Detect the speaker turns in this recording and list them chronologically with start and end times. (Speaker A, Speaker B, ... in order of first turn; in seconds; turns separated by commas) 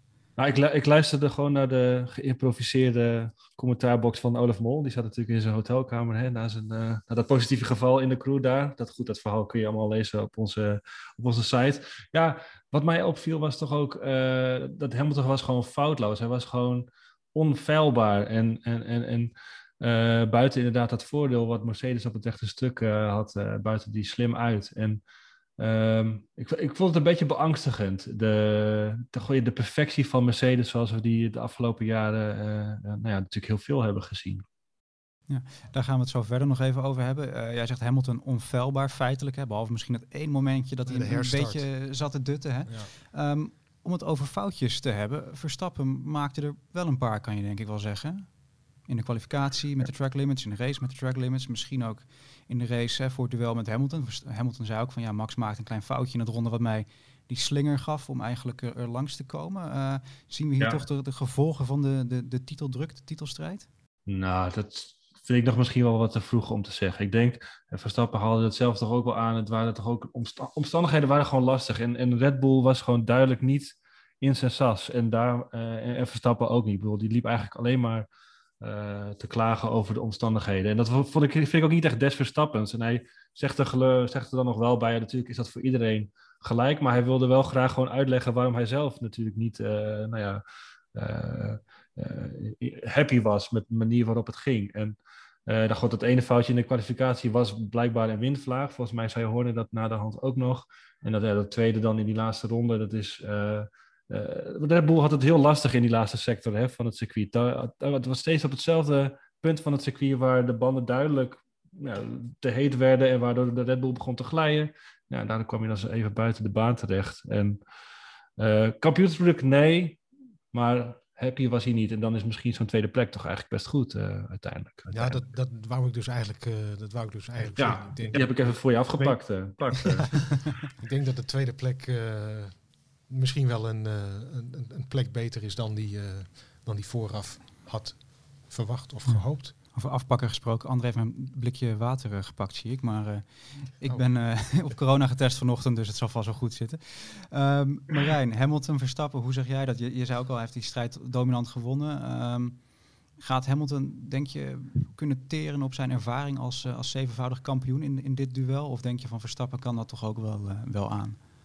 Speaker A: 0.4-25.0, Speaker A: 25.6-34.4, Speaker B: 35.3-63.7, Speaker C: 40.9-41.9, Speaker C: 42.7-42.9, Speaker A: 64.1-78.1, Speaker A: 78.6-90.4, Speaker A: 90.9-95.0, Speaker A: 95.5-117.6, Speaker A: 118.4-120.0, Speaker A: 120.5-125.2, Speaker C: 124.9-139.5, Speaker A: 127.5-130.5, Speaker B: 139.1-161.2, Speaker C: 143.8-144.6